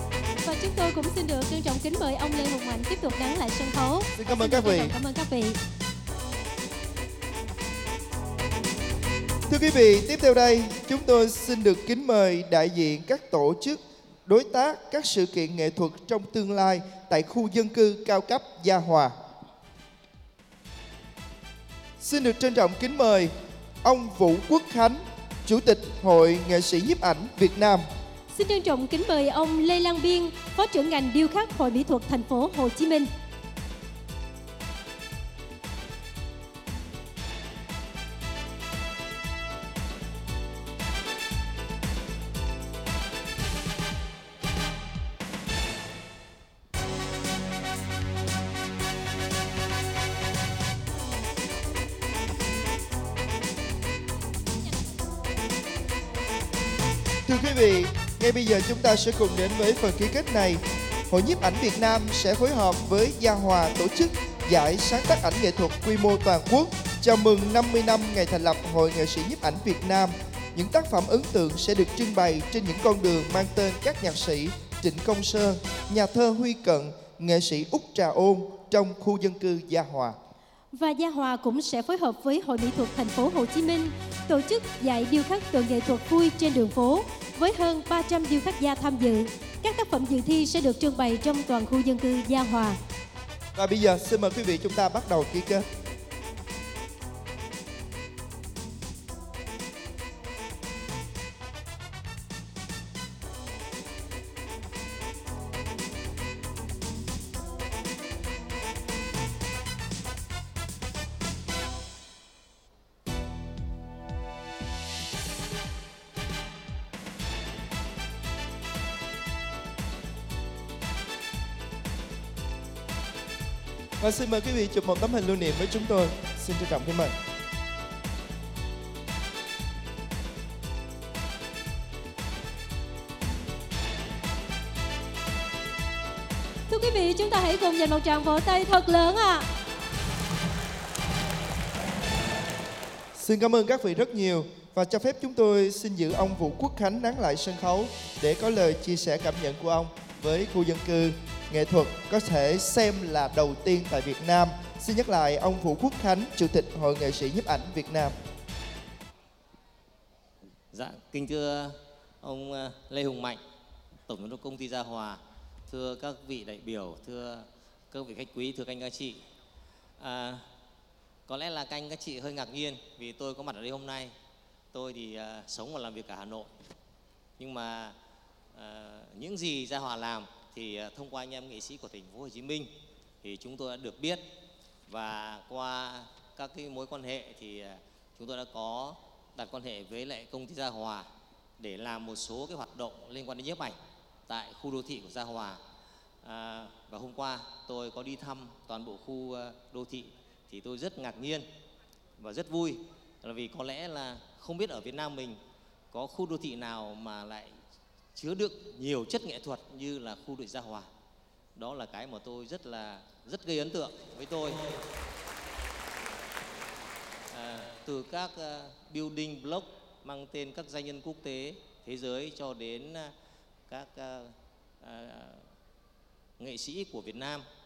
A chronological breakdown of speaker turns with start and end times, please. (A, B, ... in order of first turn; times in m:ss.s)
0:00.4-0:05.6 A
0:04.2-0:04.9 B
0:09.5-0:19.2 B
0:22.0-0:27.8 B
0:28.3-0:33.1 A
0:57.3-1:20.2 B
1:20.7-1:32.8 A
1:33.6-1:35.6 B
2:04.0-2:07.2 B
2:16.7-2:19.5 A
2:23.2-2:38.2 B
2:40.7-2:43.4 C
2:44.1-2:49.2 C
2:50.0-2:50.4 C
2:51.3-2:54.2 C
2:54.7-2:56.5 C
2:57.4-2:58.0 C
2:58.5-3:04.2 C
3:04.9-3:15.6 C
3:16.2-3:21.5 C
3:22.2-3:25.4 C
3:25.9-3:27.6 C
3:28.2-3:30.9 C
3:31.6-3:34.7 C
3:37.3-3:43.1 C
3:43.7-3:45.5 C
3:46.4-3:47.4 C